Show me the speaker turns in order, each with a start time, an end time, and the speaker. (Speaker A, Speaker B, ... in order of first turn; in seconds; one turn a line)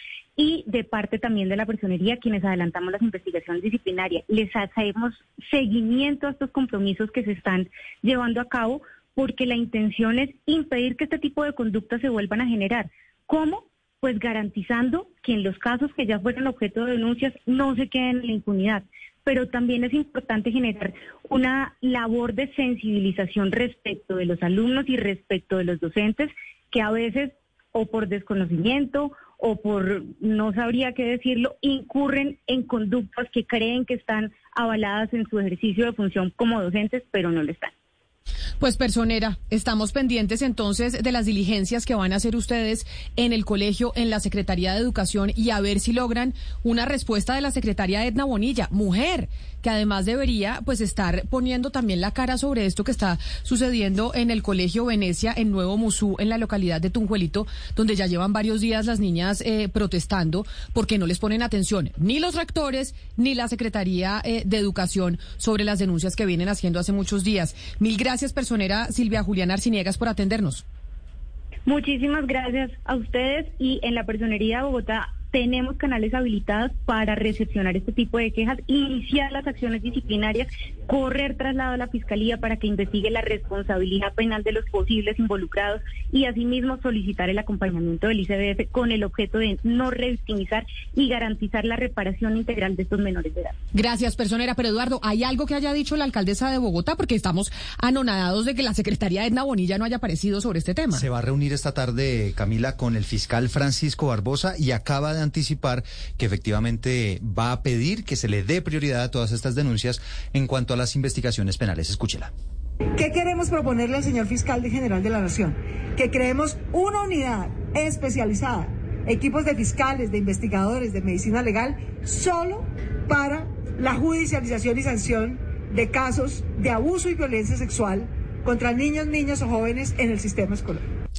Speaker A: 0.4-37.7
Speaker B: 38.6-70.6
Speaker A: 71.7-93.5
Speaker B: 93.7-101.0
Speaker C: 100.9-112.3
Speaker D: 113.0-130.8